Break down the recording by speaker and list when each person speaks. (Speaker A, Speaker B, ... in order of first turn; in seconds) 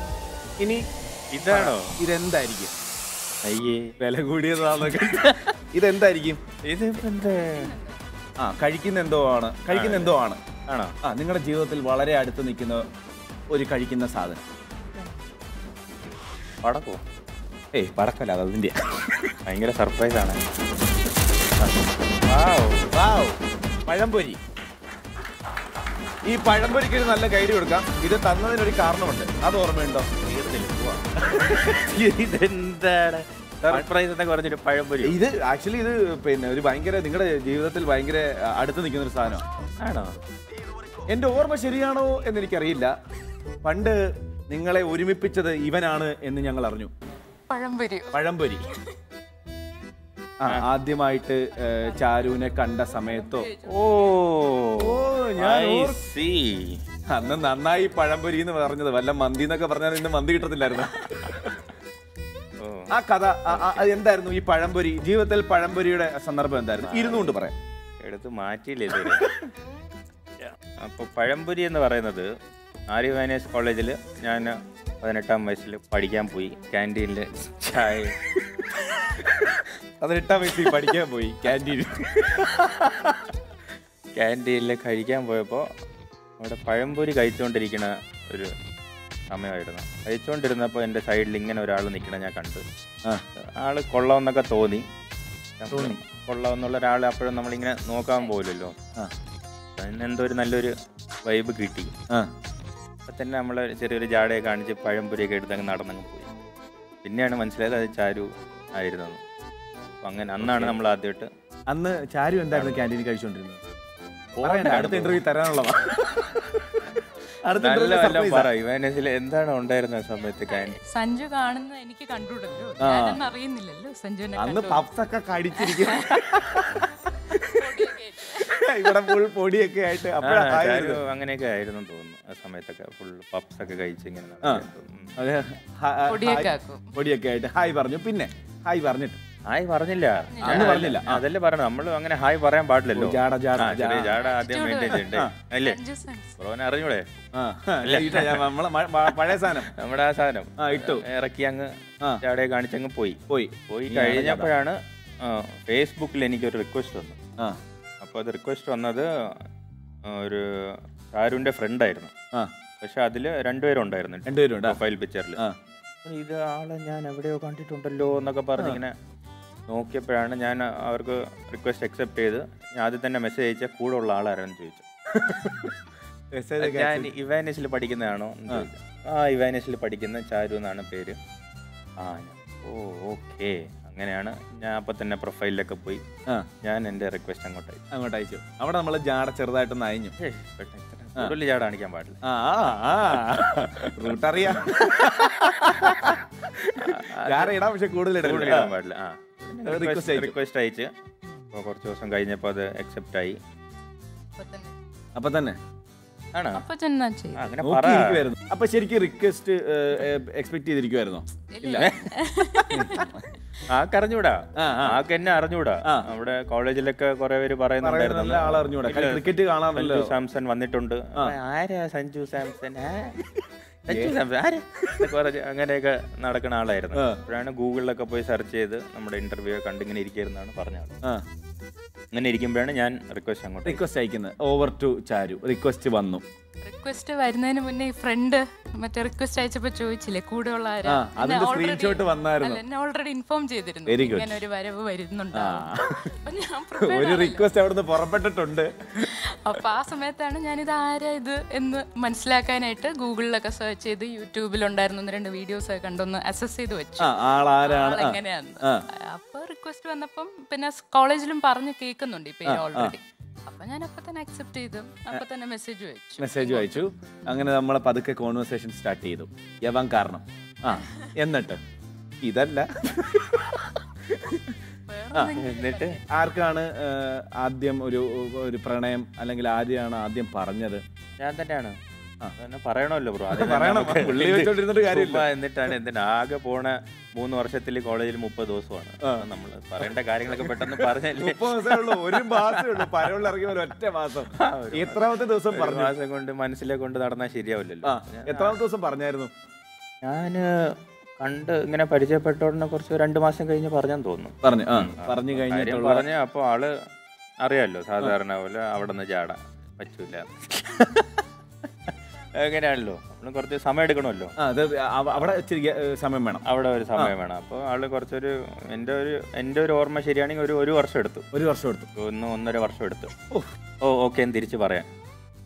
Speaker A: 0.6-0.8, 1.5-2.7, 4.0-6.4, 8.4-10.4, 11.0-12.9, 13.5-14.4, 17.7-19.3, 22.9-24.4, 26.2-30.1, 31.3-31.6, 35.0-39.4, 41.1-42.9, 43.6-46.9, 48.1-48.6, 50.4-53.5, 54.8-56.0, 57.1-61.5, 62.9-67.5, 80.0-83.2, 95.7-96.0, 110.4-110.8, 111.7-113.6, 114.4-116.8, 117.4-118.5, 122.8-123.2, 124.3-131.0, 135.2-139.2, 140.4-141.2, 142.9-144.2, 147.3-149.7, 150.6-151.0, 153.3-154.5, 164.2-164.8, 175.1-175.7, 176.3-177.1, 187.9-190.1, 192.2-198.7, 199.6-200.3, 205.1-205.6, 207.6-211.9, 212.7-213.2, 214.6-215.0, 217.8-220.1, 223.9-224.1, 226.9-227.2, 233.6-236.2, 240.8-242.6, 243.9-244.4, 245.3-246.2, 246.8-248.7, 257.0-258.9, 262.4-262.9, 266.2-271.6, 272.2-274.6, 276.1-280.8, 283.3-285.2, 290.4-295.9, 297.8-299.3, 304.4-306.0, 314.4-317.1, 321.3-321.9
Speaker B: 1.3-1.9, 3.4-3.9, 4.9-5.3, 6.6-7.7, 9.7-10.2, 10.7-10.9, 16.6-17.0, 19.4-20.4, 22.2-22.9, 30.2-35.2, 39.8-40.2, 53.7-56.8, 62.6-62.9, 63.6-63.9, 66.8-67.3, 68.0-69.4, 70.4-72.3, 72.9-78.1, 84.1-85.7, 86.4-88.5, 89.3-92.6, 93.6-94.8, 95.6-98.7, 99.8-100.7, 101.2-101.9, 103.1-106.3, 107.0-109.2, 110.0-111.3, 112.5-112.8, 114.3-115.2, 117.6-120.7, 130.2-135.1, 139.5-145.8, 146.4-147.0, 147.8-148.5, 149.1-151.7, 152.2-157.2, 158.0-159.1, 160.1-162.1, 162.8-165.4, 166.0-168.9, 169.7-174.8, 176.6-181.2, 182.0-186.0, 186.6-187.8, 190.2-192.2, 195.4-196.2, 196.8-197.6, 198.2-200.9, 201.5-203.4, 206.3-206.6, 207.4-208.3, 211.7-212.6, 213.7-223.3, 223.8-230.9, 232.1-233.8, 275.3-276.0, 281.2-281.7, 282.4-293.0, 294.4-298.6, 300.0-300.4, 301.2-306.7, 307.4-311.1, 311.9-314.3, 316.4-321.3, 321.9-323.1, 323.8-324.9
Speaker C: 7.5-8.0, 47.5-48.1, 51.7-52.3, 52.9-54.1, 120.5-124.8, 125.6-126.2, 127.5-128.6, 136.1-136.9, 140.3-140.8, 144.2-146.3, 204.4-204.7, 206.5-207.5, 211.5-213.2, 236.6-247.5, 249.0-267.5, 274.9-276.0